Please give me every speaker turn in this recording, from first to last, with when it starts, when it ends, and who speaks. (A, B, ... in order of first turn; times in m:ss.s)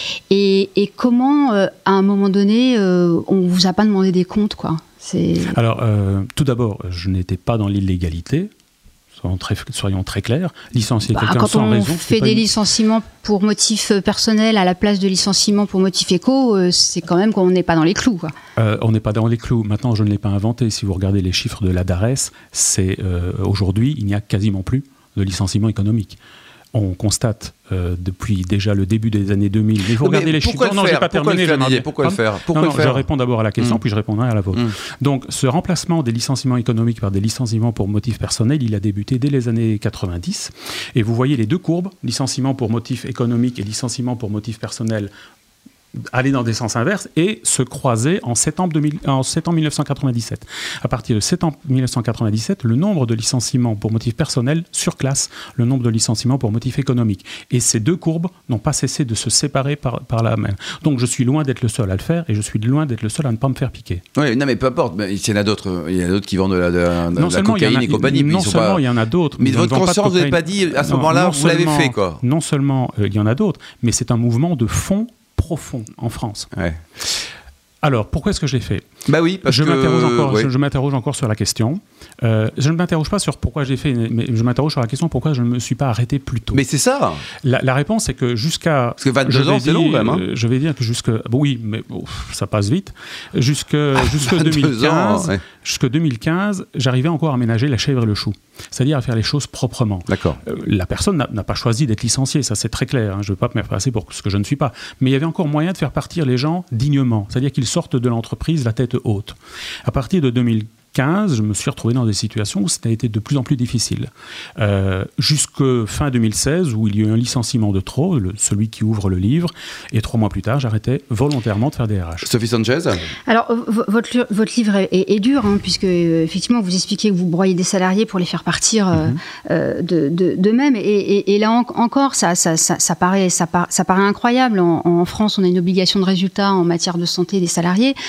0:00.3-0:05.6 A
0:05.5-0:08.5 B
0:09.2-0:12.5 B
0:11.1-0:18.3 A
0:18.6-0:26.2 B
0:26.7-0:45.1 B
0:30.0-0:33.0 C
0:46.1-1:04.0 B
1:04.2-1:08.8 C
1:07.1-1:16.5 B
1:09.4-1:12.2 C
1:16.6-1:16.8 C
1:17.8-1:18.8 B
1:19.1-1:20.5 C
1:19.4-1:26.6 B
1:26.5-1:27.2 C
1:27.4-2:02.3 B
1:29.0-1:30.2 C
1:34.0-1:35.4 C
1:40.1-1:40.4 C
2:02.2-2:03.0 C
2:03.3-2:18.0 A
2:08.9-2:09.2 B